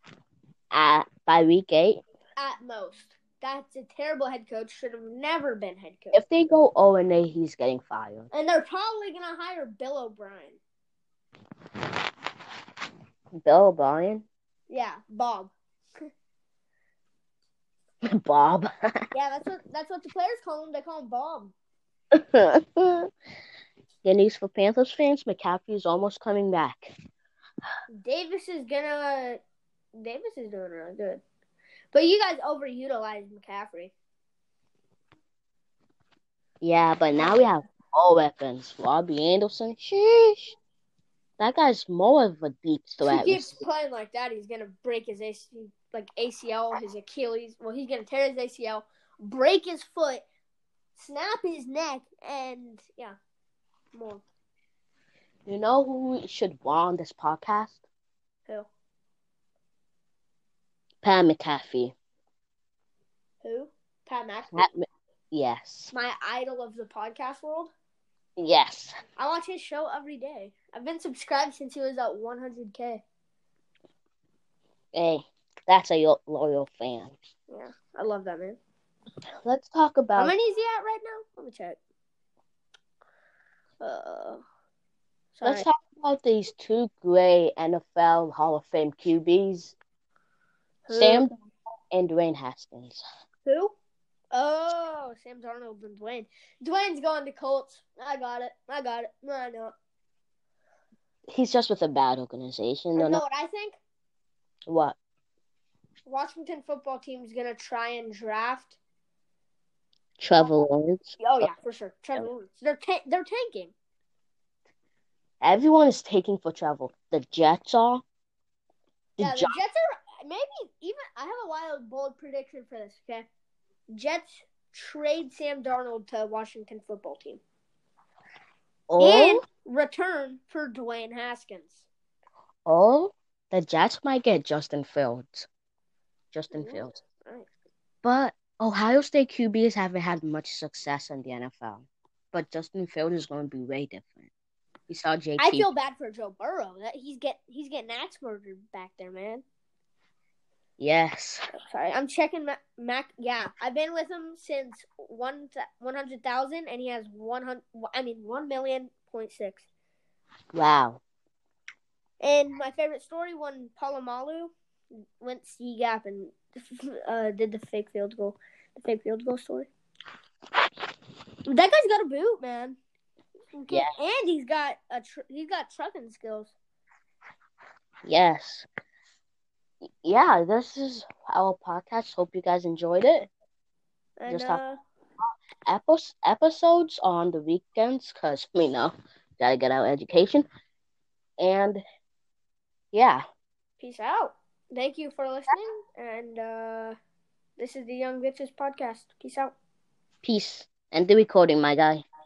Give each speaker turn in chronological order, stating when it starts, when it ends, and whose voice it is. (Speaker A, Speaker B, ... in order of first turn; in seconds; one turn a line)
Speaker A: 0.7-2.0
Speaker B: 2.4-6.2
Speaker A: 6.1-8.3
Speaker B: 8.3-10.6
Speaker A: 13.4-14.3
Speaker B: 14.7-15.5
Speaker A: 18.1-18.7
Speaker B: 19.1-21.6
Speaker A: 22.1-23.1
Speaker A: 24.0-26.9
Speaker B: 27.9-29.4
Speaker B: 29.9-31.2
Speaker B: 31.9-33.9
Speaker A: 36.6-40.6
Speaker B: 37.2-37.5
Speaker A: 41.4-43.6
Speaker B: 43.0-50.3
Speaker B: 51.0-53.2
Speaker B: 53.9-54.2
Speaker A: 55.5-57.8
Speaker A: 61.0-61.9
Speaker B: 63.4-64.7
Speaker A: 64.5-65.9
Speaker B: 65.9-67.7
Speaker A: 68.4-68.9
Speaker B: 69.2-73.0
Speaker A: 74.9-77.2
Speaker B: 77.5-78.6
Speaker A: 79.4-80.3
Speaker B: 80.2-81.8
Speaker B: 83.8-84.4
Speaker B: 85.3-85.7
Speaker A: 85.4-89.8
Speaker B: 90.9-91.3
Speaker A: 90.9-91.3
Speaker A: 91.9-93.0
Speaker B: 93.5-93.7
Speaker B: 94.3-99.8
Speaker A: 101.3-103.2
Speaker B: 103.0-103.8
Speaker A: 104.7-105.0
Speaker B: 106.1-108.8
Speaker A: 110.2-111.5
Speaker B: 111.2-113.7
Speaker A: 115.4-118.0
Speaker A: 119.2-119.5
Speaker B: 119.2-123.3
Speaker B: 123.9-127.4
Speaker A: 128.9-129.4
Speaker B: 129.0-131.9
Speaker A: 132.7-135.5
Speaker A: 136.3-137.0
Speaker B: 136.5-137.5
Speaker A: 138.0-144.3
Speaker A: 144.9-145.7
Speaker B: 145.4-149.4
Speaker A: 150.8-151.4
Speaker B: 151.5-159.7
Speaker A: 160.5-161.0
Speaker B: 162.2-169.7
Speaker B: 171.5-172.8
Speaker B: 173.6-176.5
Speaker A: 178.1-178.7
Speaker A: 180.0-183.3
Speaker B: 184.2-184.8
Speaker A: 184.3-184.6
Speaker A: 185.7-190.5
Speaker A: 191.4-191.8
Speaker A: 192.9-193.2
Speaker B: 193.8-197.0
Speaker B: 197.6-199.6
Speaker A: 200.2-202.0